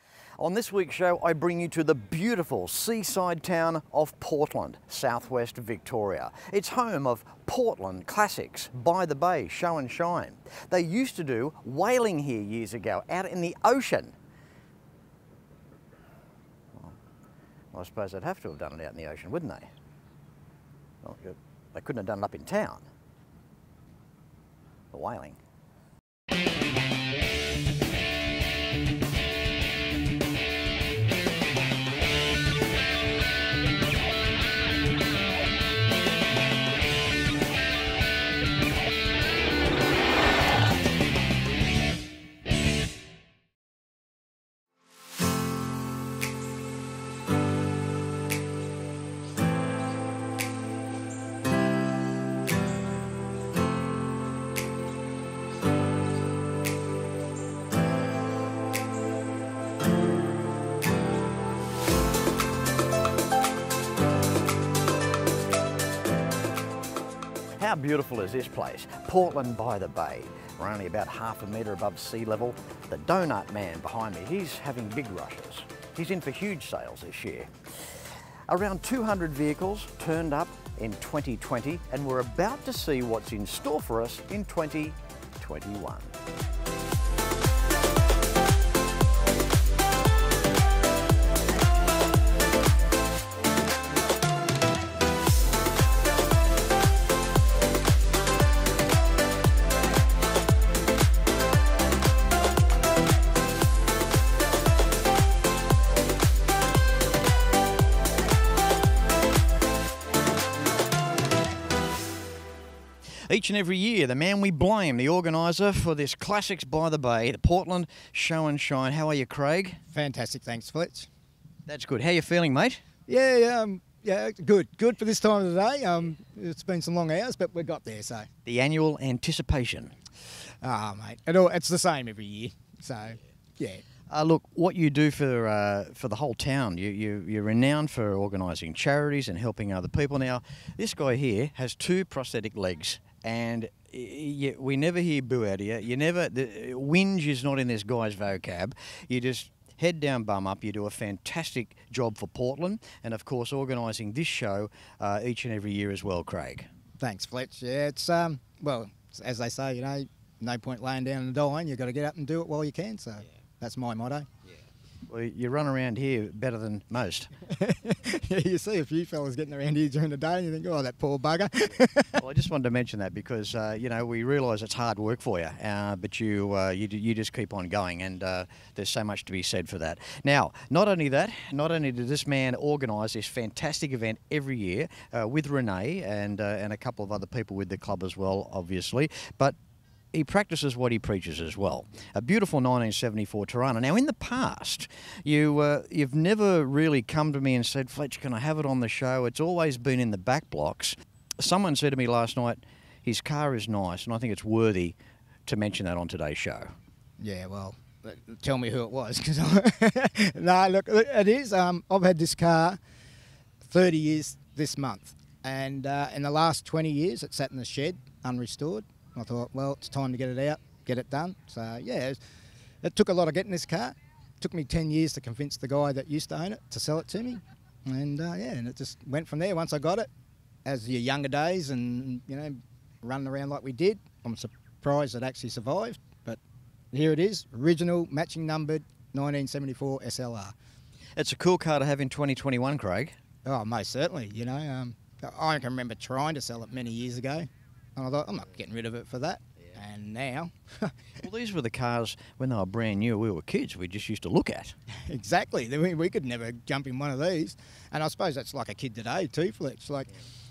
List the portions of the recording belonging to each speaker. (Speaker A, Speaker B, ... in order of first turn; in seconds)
Speaker A: 0.4-14.1, 17.7-19.7, 21.0-22.9, 24.9-25.4, 67.6-77.9, 78.5-86.1, 113.2-119.8, 121.7-122.8, 128.4-129.9, 134.1-156.7, 165.1-167.3, 172.2-189.6, 190.1-206.7, 241.2-243.2, 251.2-254.8
Speaker B: 119.9-121.1, 123.1-128.3, 130.6-133.8, 157.0-164.3, 167.5-172.2, 207.2-212.8, 213.6-222.2, 222.8-230.1, 230.7-236.4, 236.9-240.6, 243.4-251.0, 255.1-260.2